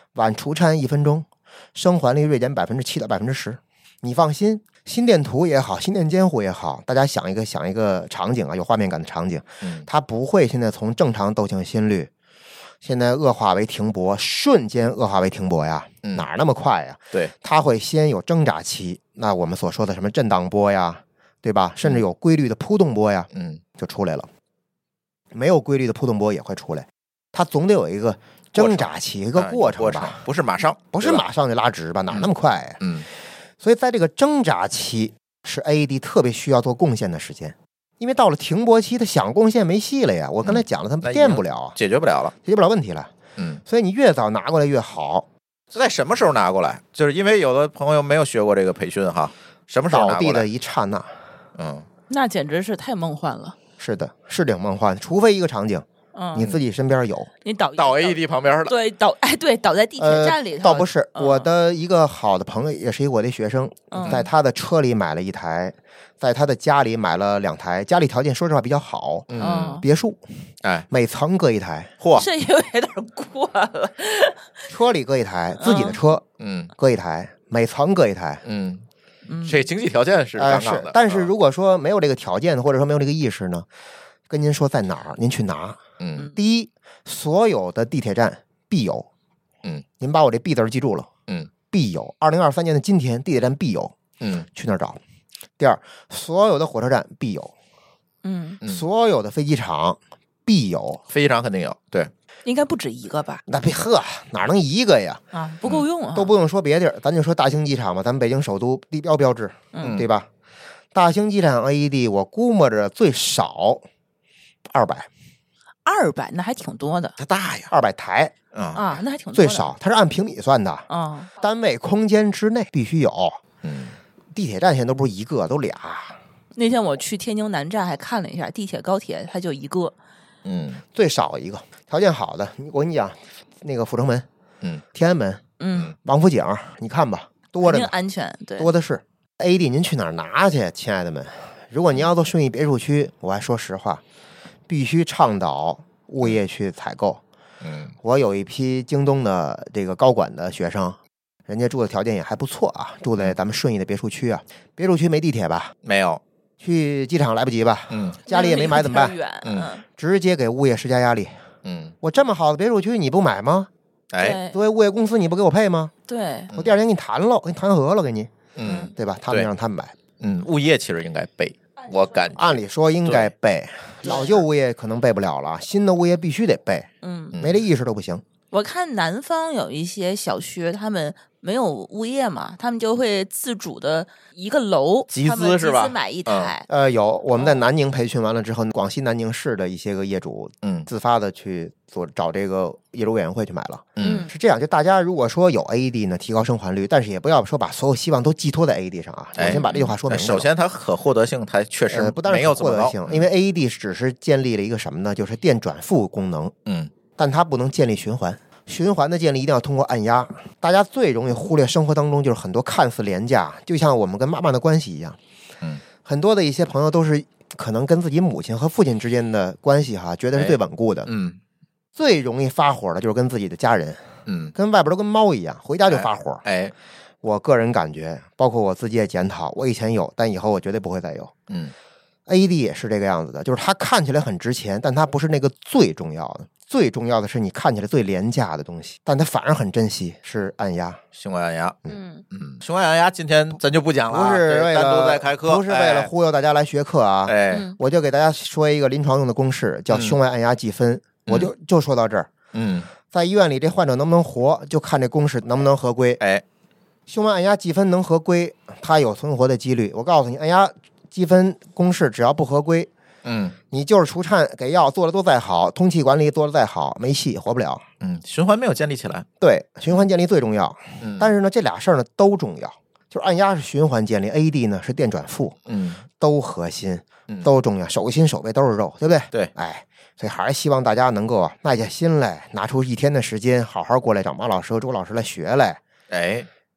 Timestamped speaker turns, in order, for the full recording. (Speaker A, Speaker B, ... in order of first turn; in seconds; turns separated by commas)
Speaker A: 0.1-12.1, Speaker B: 9.6-9.9, Speaker A: 12.8-24.3, Speaker B: 23.3-23.6, Speaker A: 25.3-30.2, Speaker B: 28.6-31.2, Speaker A: 30.9-32.8, Speaker B: 32.8-33.1, Speaker A: 33.6-41.8, Speaker B: 40.4-42.3, Speaker A: 42.4-43.1, Speaker B: 43.4-43.6, Speaker A: 43.6-45.3, Speaker B: 45.7-50.5, Speaker A: 49.9-51.1, Speaker B: 51.6-51.9, Speaker C: 52.1-53.6, Speaker A: 53.8-57.3, Speaker C: 56.1-56.5, Speaker C: 57.4-61.5, Speaker B: 57.8-58.8, Speaker A: 60.0-70.2, Speaker C: 63.9-64.2, Speaker B: 64.0-64.3, Speaker B: 69.3-69.8, Speaker C: 69.4-69.9, Speaker A: 70.9-71.9, Speaker B: 72.0-72.3, Speaker C: 72.1-74.5, Speaker A: 74.7-76.2, Speaker C: 75.6-76.0, Speaker B: 76.4-76.7, Speaker A: 76.8-78.4, Speaker B: 78.4-78.8, Speaker C: 79.3-79.7, Speaker B: 79.4-81.3, Speaker A: 80.4-83.7, Speaker A: 84.3-89.1, Speaker B: 86.0-86.3, Speaker A: 90.0-91.1, Speaker A: 91.7-94.0, Speaker B: 94.2-94.5, Speaker A: 94.5-95.0, Speaker A: 95.6-97.5, Speaker C: 98.2-98.6, Speaker B: 98.6-98.9, Speaker A: 98.6-101.0, Speaker B: 101.1-102.1, Speaker C: 102.5-103.4, Speaker A: 103.5-105.2, Speaker C: 105.3-106.3, Speaker A: 106.1-110.3, Speaker C: 109.7-110.1, Speaker B: 109.8-110.1, Speaker A: 110.9-113.8, Speaker A: 114.7-115.1, Speaker C: 115.8-117.2, Speaker B: 117.2-117.7, Speaker A: 117.7-118.3, Speaker B: 118.5-119.0, Speaker C: 118.7-119.7, Speaker A: 119.3-120.9, Speaker C: 120.9-121.3, Speaker A: 121.4-123.4, Speaker B: 123.6-124.0, Speaker A: 124.3-126.2, Speaker C: 126.5-129.9, Speaker B: 130.4-130.8, Speaker A: 130.9-134.3, Speaker A: 134.9-135.4, Speaker C: 135.6-135.9, Speaker A: 136.0-137.9, Speaker C: 137.6-138.7, Speaker A: 138.6-144.0, Speaker A: 144.7-147.2, Speaker B: 147.6-147.9, Speaker A: 148.0-155.7, Speaker B: 155.8-156.2, Speaker A: 156.6-159.2, Speaker B: 157.9-158.2, Speaker C: 158.3-159.8, Speaker B: 159.4-159.7, Speaker A: 160.0-161.3, Speaker B: 161.6-162.0, Speaker A: 162.0-163.7, Speaker B: 164.1-164.4, Speaker C: 164.2-164.6, Speaker A: 164.5-165.9, Speaker C: 166.1-166.5, Speaker A: 166.5-169.9, Speaker B: 168.6-169.5, Speaker C: 168.7-168.9, Speaker B: 170.2-172.5, Speaker A: 172.4-178.2, Speaker B: 173.1-173.3, Speaker B: 174.0-174.3, Speaker C: 174.1-174.4, Speaker C: 177.0-177.4, Speaker B: 177.3-177.6, Speaker C: 178.5-186.7, Speaker B: 185.1-186.5, Speaker A: 186.7-200.5, Speaker B: 190.6-190.9, Speaker B: 194.0-194.3, Speaker C: 194.0-194.3, Speaker B: 199.4-203.3, Speaker A: 201.9-206.5, Speaker B: 206.7-206.9, Speaker A: 207.2-215.2, Speaker A: 216.0-221.1, Speaker B: 220.3-221.4, Speaker A: 222.0-226.4, Speaker B: 224.3-224.5, Speaker B: 225.9-226.7, Speaker A: 227.2-231.3, Speaker A: 232.3-241.0, Speaker B: 241.1-241.8, Speaker C: 241.9-242.2, Speaker B: 242.3-246.1, Speaker A: 244.1-252.3, Speaker B: 247.3-247.7, Speaker C: 247.5-247.8, Speaker B: 249.9-250.2, Speaker B: 252.5-252.9, Speaker A: 253.1-256.2, Speaker A: 257.1-262.9, Speaker B: 263.2-263.6, Speaker A: 263.7-267.9, Speaker B: 268.0-269.3, Speaker A: 269.4-275.6, Speaker B: 271.0-271.3, Speaker B: 275.7-276.0, Speaker A: 276.2-285.8, Speaker B: 286.1-286.5